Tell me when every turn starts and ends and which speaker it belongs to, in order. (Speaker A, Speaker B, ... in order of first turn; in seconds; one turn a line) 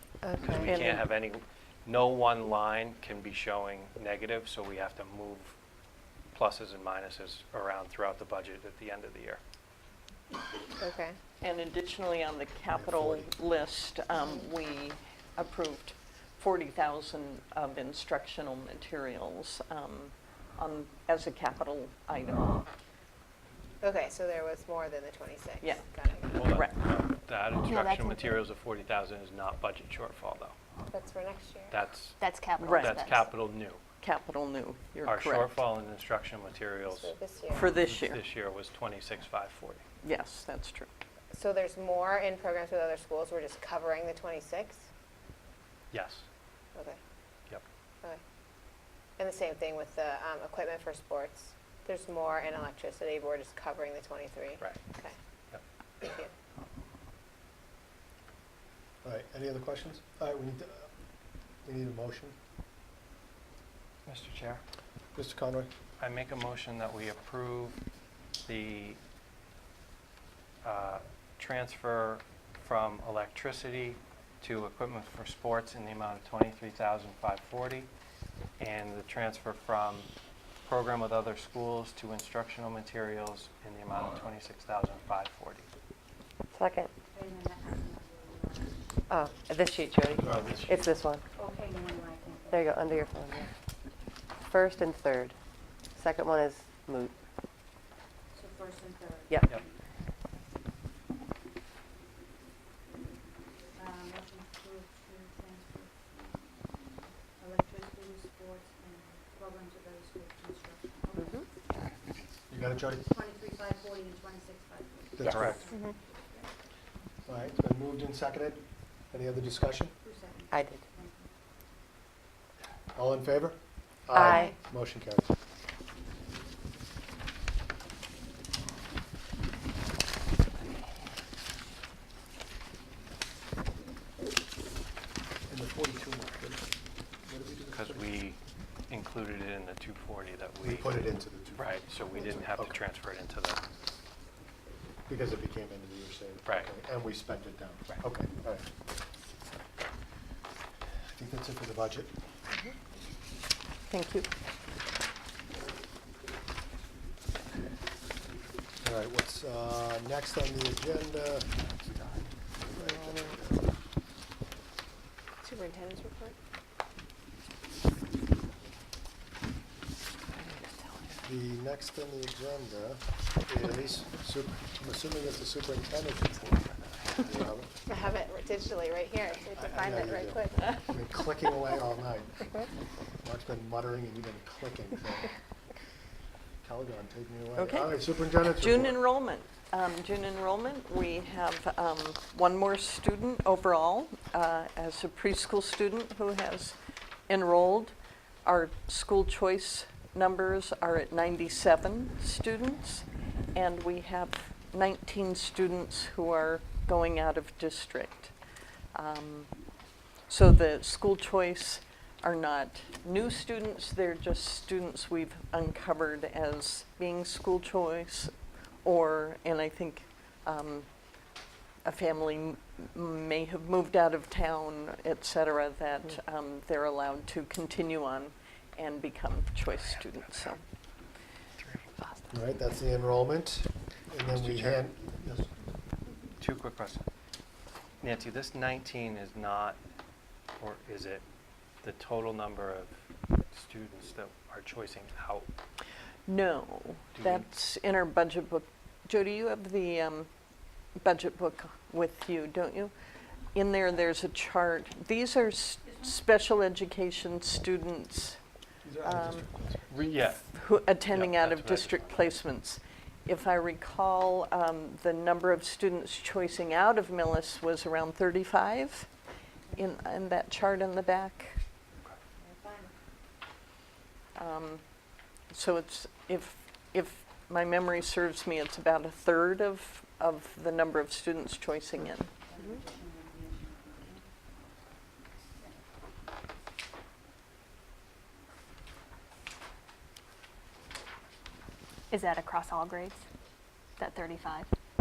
Speaker A: 0.2-0.8
Speaker B: 0.4-5.6
Speaker C: 0.6-1.0
Speaker B: 6.3-9.4
Speaker D: 10.8-11.2
Speaker C: 11.4-22.7
Speaker E: 12.7-13.3
Speaker D: 23.8-26.6
Speaker C: 25.6-26.8
Speaker B: 26.3-30.6
Speaker F: 27.6-28.4
Speaker D: 30.9-31.7
Speaker B: 31.7-33.8
Speaker F: 32.2-33.3
Speaker C: 32.6-33.0
Speaker C: 34.0-35.6
Speaker B: 35.0-39.8
Speaker D: 36.9-37.7
Speaker C: 37.5-38.2
Speaker C: 40.0-40.9
Speaker D: 41.3-44.9
Speaker B: 45.9-46.2
Speaker D: 46.7-47.0
Speaker D: 49.2-55.2
Speaker D: 56.0-56.3
Speaker E: 59.0-60.9
Speaker E: 61.6-62.3
Speaker B: 64.1-64.6
Speaker E: 65.1-65.7
Speaker B: 66.0-67.8
Speaker B: 68.5-69.0
Speaker B: 70.6-77.9
Speaker B: 78.6-80.1
Speaker B: 80.7-85.7
Speaker A: 86.5-86.9
Speaker G: 87.1-88.8
Speaker A: 89.1-91.2
Speaker E: 90.1-90.7
Speaker B: 90.2-90.8
Speaker G: 91.4-92.6
Speaker A: 92.5-93.5
Speaker A: 94.5-95.3
Speaker A: 96.0-97.2
Speaker G: 98.4-99.6
Speaker A: 99.3-99.5
Speaker G: 103.8-106.0
Speaker G: 107.5-111.3
Speaker E: 112.5-113.1
Speaker G: 113.2-115.9
Speaker E: 115.2-115.7
Speaker B: 115.2-115.6
Speaker E: 117.2-119.9
Speaker G: 120.1-121.2
Speaker A: 120.5-120.8
Speaker E: 123.0-125.3
Speaker A: 124.1-124.5
Speaker E: 135.5-136.7
Speaker E: 137.2-138.2
Speaker B: 137.7-141.0
Speaker E: 140.6-142.8
Speaker B: 141.6-143.6
Speaker E: 145.1-148.7
Speaker E: 151.1-152.2
Speaker C: 153.9-154.3
Speaker E: 158.8-163.8
Speaker D: 165.4-166.3
Speaker C: 170.4-171.2
Speaker E: 171.2-176.6
Speaker E: 177.2-177.7
Speaker D: 177.9-180.8
Speaker E: 179.5-182.6
Speaker E: 183.2-185.3
Speaker E: 186.6-189.0
Speaker C: 187.6-196.8
Speaker C: 197.3-208.3
Speaker C: 208.9-209.5
Speaker C: 210.3-220.9
Speaker C: 221.8-230.6
Speaker B: 229.7-230.5
Speaker B: 231.6-231.8
Speaker E: 232.3-235.5
Speaker B: 234.3-234.8
Speaker B: 236.4-237.1
Speaker B: 238.0-239.8
Speaker B: 240.6-241.2
Speaker B: 241.8-242.9
Speaker B: 243.5-245.5
Speaker C: 246.2-250.3
Speaker B: 247.1-247.5
Speaker C: 250.9-252.9
Speaker C: 253.5-258.4
Speaker E: 258.8-260.0
Speaker C: 259.0-259.5
Speaker B: 259.9-260.5
Speaker C: 260.4-269.1
Speaker B: 261.1-262.3
Speaker C: 269.7-271.6
Speaker G: 272.5-272.9
Speaker C: 274.4-274.8
Speaker C: 275.5-282.3
Speaker G: 282.6-283.3
Speaker F: 292.1-293.2
Speaker F: 294.0-294.7